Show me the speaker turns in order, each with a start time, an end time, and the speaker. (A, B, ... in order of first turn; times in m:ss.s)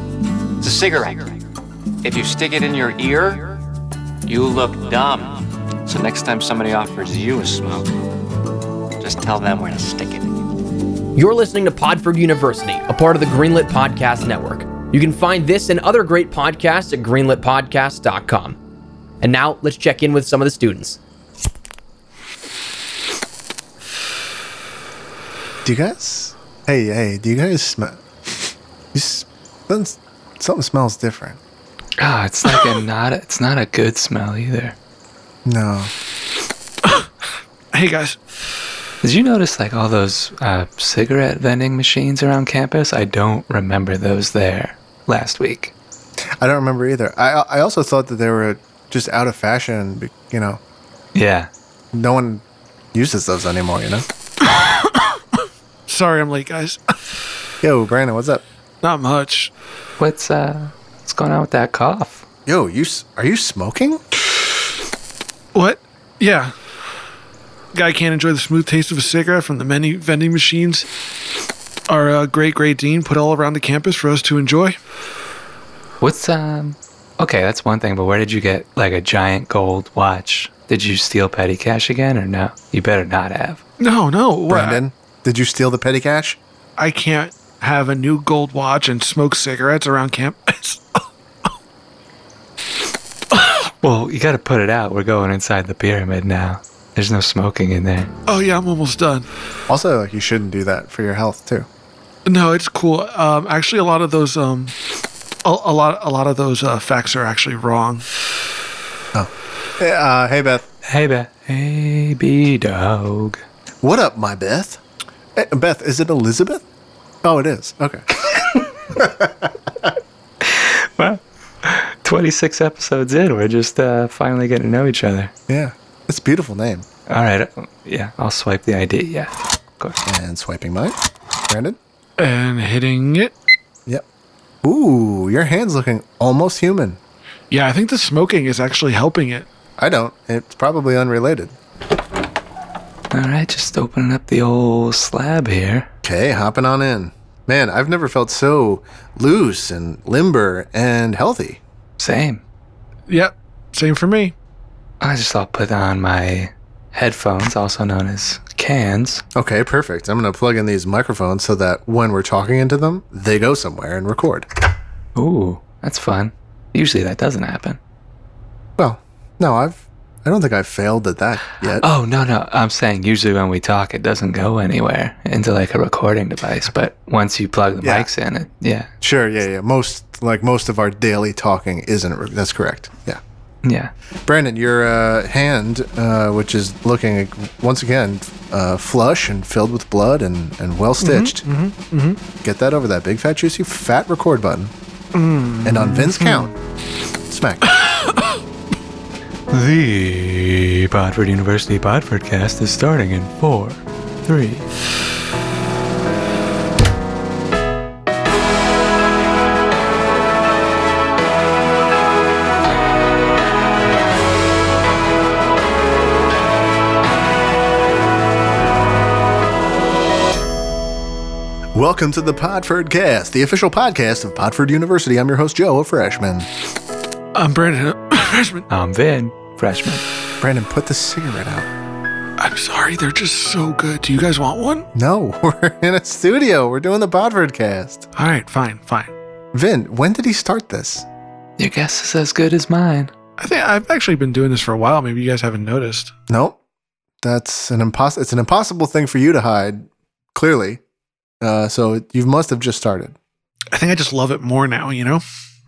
0:00.6-0:01.4 A
0:02.0-0:03.6 A
0:04.2-0:07.9 A
0:09.0-0:10.4 A
0:11.2-0:18.6 B
0:19.2-0:21.0 B
0:25.6-0:31.4 C
0:32.0-0:34.8 D
0:35.5-0:35.9 C
0:37.7-0:38.2 E
0:39.0-0:45.7 D
0:46.4-0:50.6 C
0:51.2-0:51.5 D
0:51.9-0:52.4 C
0:52.9-0:54.1 C
0:54.4-0:55.2 E
0:55.9-0:56.8 E
0:57.6-0:58.4 C
0:58.8-0:59.5 E
1:00.0-1:02.2 D
1:02.5-1:04.0 C
1:05.5-1:06.5 E
1:07.7-1:10.9 E
1:11.9-1:14.8 E
1:16.0-1:23.6 D
1:23.8-1:24.8 E
1:24.5-1:26.4 C
1:26.8-1:31.0 E
1:33.3-1:33.6 E
1:33.8-1:38.1 D
1:38.3-1:39.3 E
1:39.7-1:41.7 C
1:42.3-1:44.7 E
1:45.4-1:48.1 E
1:49.1-1:50.7 C
1:50.9-1:53.4 D
1:53.8-1:54.8 C
1:55.4-1:56.6 C
1:57.2-1:58.1 C
1:58.9-1:59.9 C
2:00.4-2:05.3 D
2:05.5-2:06.9 C
2:07.1-2:10.0 D
2:10.1-2:11.0 C
2:11.5-2:11.8 C
2:12.2-2:13.3 E
2:14.6-2:17.0 C
2:17.5-2:19.5 E
2:19.8-2:21.6 C
2:23.1-2:25.9 D
2:26.0-2:31.6 C
2:32.0-2:32.4 D
2:33.1-2:34.3 E
2:35.0-2:39.2 D
2:39.4-2:44.5 C
2:45.2-2:47.8 D
2:48.8-2:51.8 C
2:51.8-2:58.9 D
2:57.8-2:58.1 C
2:59.0-3:03.2 C
3:03.6-3:03.9 D
3:04.2-3:11.4 C
3:11.0-3:12.2 E
3:12.4-3:14.7 C
3:15.1-3:16.5 E
3:15.6-3:16.5 C
3:17.3-3:17.7 C
3:17.7-3:18.4 E
3:19.5-3:24.7 D
3:41.7-3:46.5 C
3:47.4-3:48.7 E
3:48.7-3:50.0 D
3:50.4-3:51.7 C
3:52.4-3:54.9 E
3:54.9-3:58.1 C
3:58.2-3:59.1 E
3:59.5-4:01.1 C
4:01.6-4:03.1 D
4:03.4-4:06.1 E
4:06.3-4:06.6 C
4:07.2-4:10.8 C
4:11.4-4:13.2 C
4:13.7-4:15.2 E